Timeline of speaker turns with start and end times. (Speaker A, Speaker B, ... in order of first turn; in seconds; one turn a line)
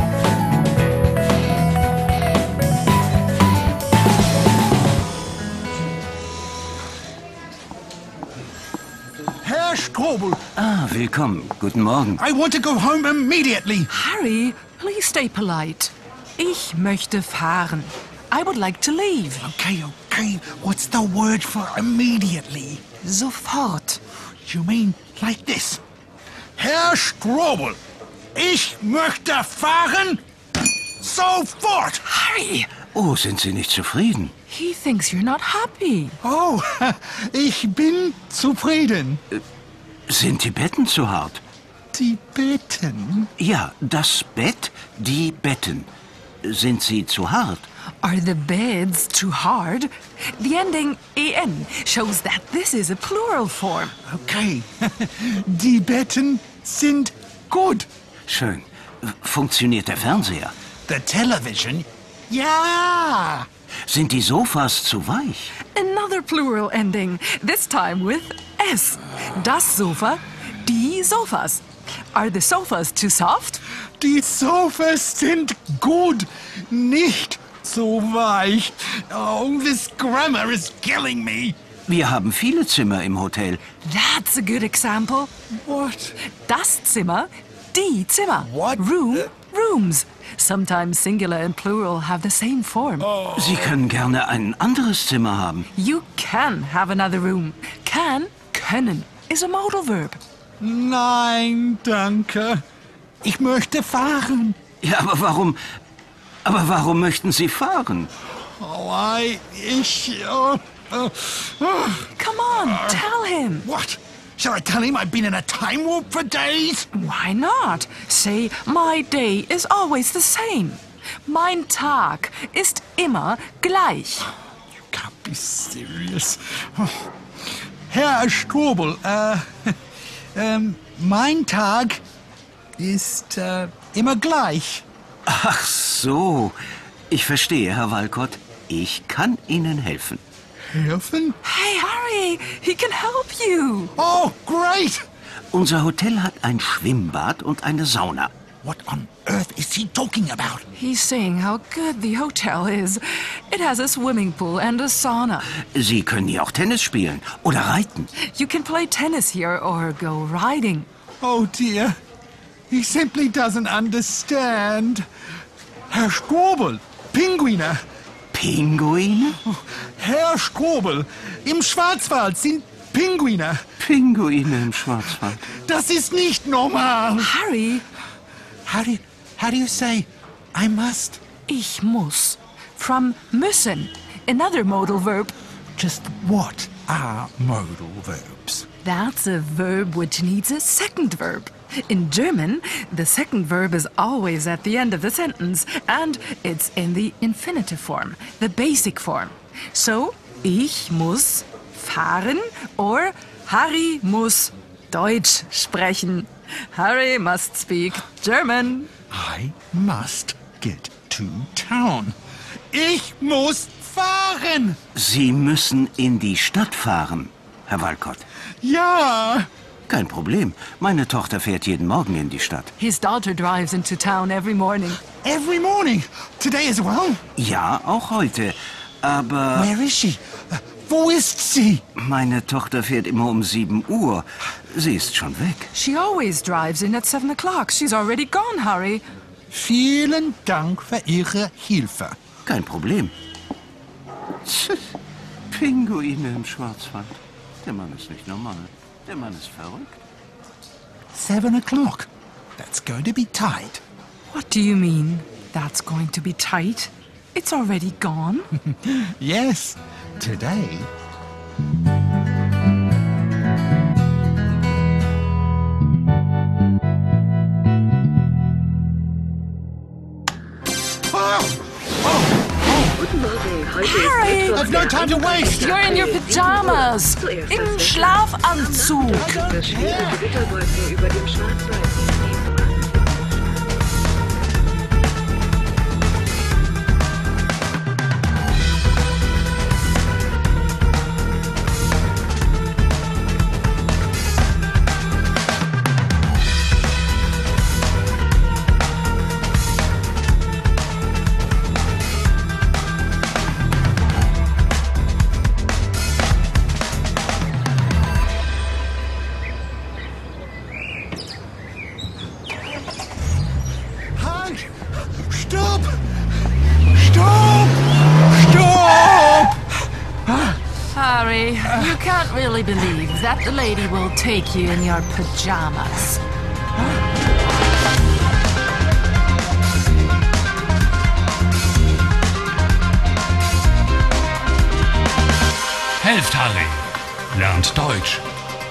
Speaker A: 9.4-10.4
Speaker B: 10.6-12.2
Speaker A: 12.2-13.9
Speaker C: 13.9-19.6
Speaker A: 19.4-22.8
Speaker C: 23.0-24.0
Speaker A: 24.4-25.8
Speaker A: 26.6-27.8
Speaker A: 28.4-30.2
Speaker A: 31.0-32.0
Speaker C: 32.0-32.7
Speaker B: 32.9-34.3
Speaker C: 34.5-36.2
Speaker A: 36.2-39.2
Speaker B: 40.1-41.4
Speaker A: 41.9-43.3
Speaker B: 43.4-45.9
Speaker B: 46.4-47.7
Speaker C: 48.0-54.0
Speaker A: 54.0-57.9
Speaker B: 58.3-60.5
Speaker A: 60.9-63.5
Speaker B: 63.9-65.5
Speaker C: 65.7-73.6
Speaker A: 74.0-81.6
Speaker B: 81.9-83.6
Speaker C: 83.8-85.3
Speaker A: 85.7-86.2
Speaker C: 86.2-93.1
Speaker A: 88.4-89.2
Speaker A: 93.0-93.8
Speaker B: 93.4-95.7
Speaker C: 95.7-100.2
Speaker A: 100.6-102.6
Speaker A: 103.2-104.6
Speaker B: 104.8-105.6
Speaker B: 106.5-108.1
Speaker A: 108.6-113.1
Speaker C: 112.2-113.7
Speaker A: 113.6-116.9
Speaker C: 116.9-124.3
Speaker A: 124.9-127.1
Speaker A: 127.9-129.7
Speaker A: 130.3-132.0
Speaker A: 132.8-134.8
Speaker B: 135.3-136.6
Speaker B: 137.1-140.2
Speaker A: 140.7-141.4
Speaker C: 141.4-143.9
Speaker A: 144.0-145.0
Speaker B: 145.5-148.3
Speaker A: 148.6-150.7
Speaker C: 150.7-155.5
Speaker B: 155.7-158.1
Speaker C: 158.2-160.9
Speaker A: 161.2-162.0
Speaker A: 162.7-165.1
Speaker A: 165.9-167.8
Speaker B: 168.3-169.4
Speaker A: 169.4-173.6
Speaker B: 173.8-175.5
Speaker A: 175.4-177.3
Speaker C: 177.2-177.8
Speaker A: 178.7-181.2
Speaker C: 181.5-185.3
Speaker A: 185.8-188.7
Speaker C: 188.8-208.9
Speaker A: 209.1-212.2
Speaker A: 212.7-214.8
Speaker B: 214.9-218.2
Speaker A: 218.6-219.5
Speaker B: 219.9-222.7
Speaker C: 222.8-225.0
Speaker A: 225.2-227.2
Speaker B: 227.4-229.7
Speaker A: 229.5-231.8
Speaker B: 232.0-235.7
Speaker C: 235.7-239.0
Speaker A: 239.5-242.2
Speaker B: 242.4-243.1
Speaker B: 244.4-244.9
Speaker B: 245.5-249.9
Speaker A: 251.1-253.8
Speaker C: 254.3-258.5
Speaker A: 258.8-260.9
Speaker A: 271.1-273.0
Speaker D: 273.0-276.7
Speaker C: 273.8-274.8
Speaker A: 274.4-275.9
Speaker C: 275.5-279.4
Speaker D: 277.3-278.0
Speaker A: 279.0-280.4
Speaker D: 279.2-283.6
Speaker A: 314.1-316.0
Speaker A: 316.9-319.7
Speaker A: 320.3-320.6
Speaker C: 320.9-326.2
Speaker A: 321.7-321.9
Speaker E: 336.0-338.3